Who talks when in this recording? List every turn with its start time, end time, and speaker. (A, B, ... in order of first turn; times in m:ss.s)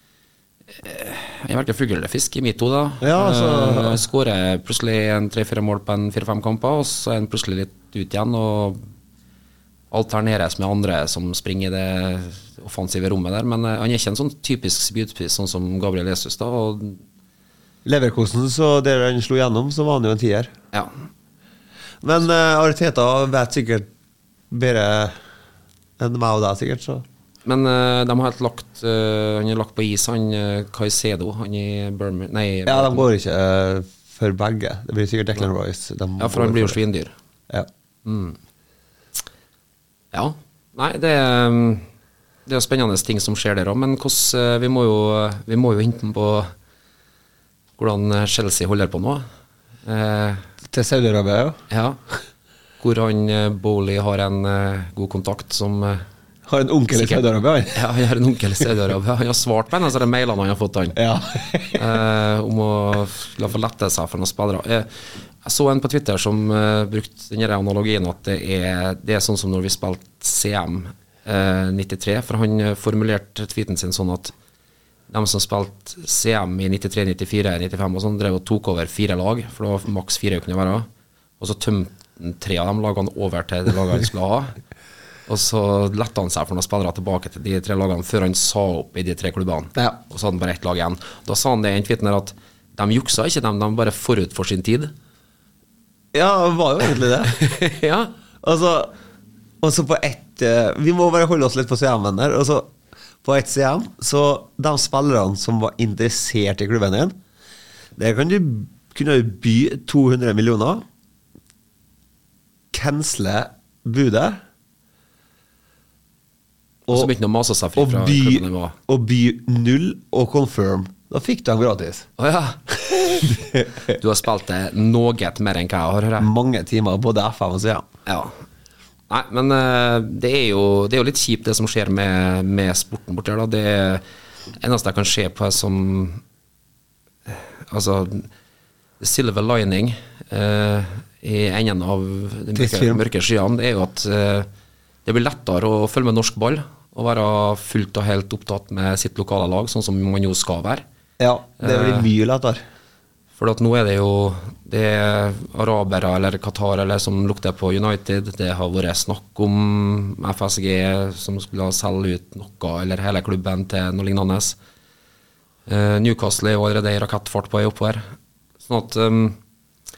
0:00.8-0:08.8 A
0:03.0-0:04.0 B
0:09.9-0:17.0 A
0:17.8-0:20.5 B
0:22.0-0:23.9 B
0:24.5-0:25.2 B
0:26.0-0:27.0 B
0:27.4-0:33.1 A
0:32.6-0:36.8 B
0:36.2-0:37.1 A
0:38.0-0:38.4 A
0:40.1-0:41.9 A
0:42.5-0:46.5 A
0:47.8-0:49.2 A
0:49.8-0:50.4 A
0:50.6-0:51.6 B
0:51.7-0:52.0 A
0:52.8-0:56.0 A
0:56.5-0:57.9 B
0:56.9-1:01.0 A
1:01.0-1:01.8 B
1:01.7-1:04.9 A
1:05.4-1:14.3 A
1:15.1-1:20.9 A
1:21.4-1:24.6 A
1:25.3-1:34.9 A
1:36.1-1:37.4 B
1:37.2-1:38.1 A
1:38.4-1:38.9 B
1:39.6-1:42.7 B
1:43.2-1:47.2 B
1:48.0-1:50.8 B
1:52.7-1:54.4 B
1:56.9-1:57.1 B
1:56.9-1:58.8 A
1:57.8-2:02.1 B
2:02.2-2:06.3 A
2:03.2-2:03.7 B
2:06.2-2:07.8 B
2:08.0-2:08.3 A
2:09.1-2:14.0 A
2:14.6-2:16.2 A
2:17.3-2:18.3 A
2:19.0-2:24.5 A
2:22.5-2:23.0 B
2:25.0-2:30.8 A
2:31.2-2:32.6 B
2:31.6-2:32.1 A
2:33.4-2:44.6 A
2:45.7-2:48.0 A
2:48.6-2:49.4 A